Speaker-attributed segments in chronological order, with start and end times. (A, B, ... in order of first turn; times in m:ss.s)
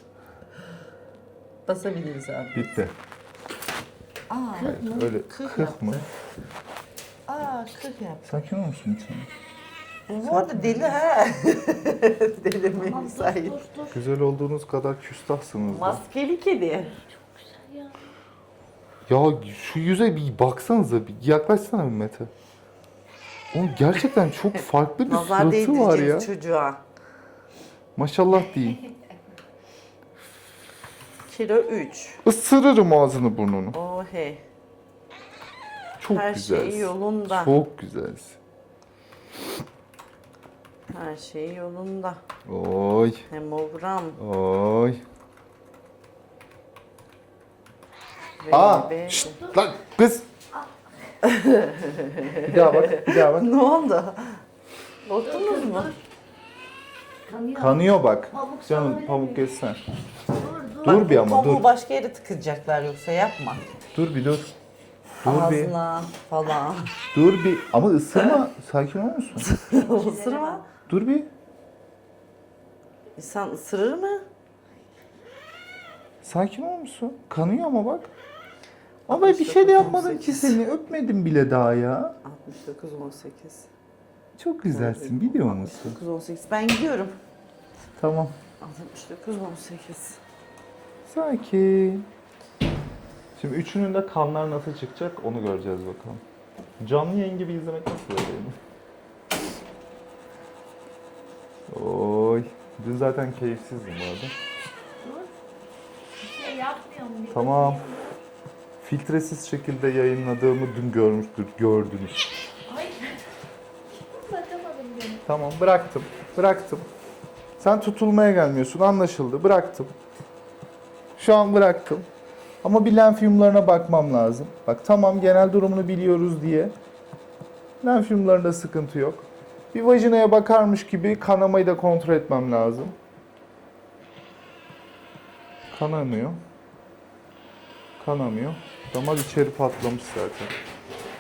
0:01.7-0:02.8 A
0:02.5-0:03.0 B
0:04.3-0:06.0 A
0:04.6-0:06.0 B
0:04.7-0:05.0 C
0:07.3-0:08.4 A
0:08.3-0:09.3 B
0:10.1-0:13.6 A
0:10.2-0:10.9 B
0:12.8-0:13.9 C
0:13.9-0:16.0 B
0:15.7-0:17.0 A
0:17.5-0:17.9 C
0:19.1-0:22.3 B
0:23.5-0:26.3 B
0:25.0-0:26.8 A
0:28.0-0:28.8 B
0:31.3-0:32.2 A
0:32.2-0:33.8 B
0:33.7-0:34.4 A
0:36.0-0:38.4 B
0:36.1-0:37.6 A
0:40.9-0:42.2 A
0:42.5-0:43.3 B
0:43.3-0:44.2 A
0:44.2-0:45.0 B
0:48.4-0:49.4 A
0:48.5-0:50.3 B
0:51.2-0:54.4 A
0:52.4-0:53.5 B
0:55.1-0:56.0 A
0:55.4-0:55.9 C
0:57.3-0:57.8 C
0:57.5-0:59.8 B
0:58.3-0:59.4 C
1:00.4-1:00.8 C
1:00.8-1:03.7 A
1:00.8-1:01.6 B
1:03.9-1:04.5 B
1:05.2-1:05.7 B
1:05.2-1:07.0 A
1:07.1-1:09.7 B
1:09.4-1:10.7 A
1:09.8-1:10.5 C
1:10.9-1:11.3 B
1:13.2-1:14.2 A
1:16.2-1:18.1 B
1:19.1-1:20.6 A
1:19.1-1:22.2 B
1:22.2-1:23.7 A
1:24.4-1:26.0 B
1:24.7-1:27.2 A
1:28.0-1:28.4 B
1:28.6-1:30.2 A
1:31.1-1:32.1 B
1:33.4-1:36.2 B
1:36.8-1:38.6 B
1:41.7-1:44.3 B
1:45.0-1:45.3 C
1:46.2-1:48.0 C
1:47.3-1:47.9 B
1:48.8-1:52.3 B
1:52.7-1:53.1 C
1:54.1-1:55.2 C
1:55.2-1:56.9 B
1:57.6-1:59.9 B
2:01.2-2:02.1 B
2:02.6-2:06.7 B
2:07.8-2:13.0 B
2:15.7-2:16.4 B
2:18.0-2:20.5 B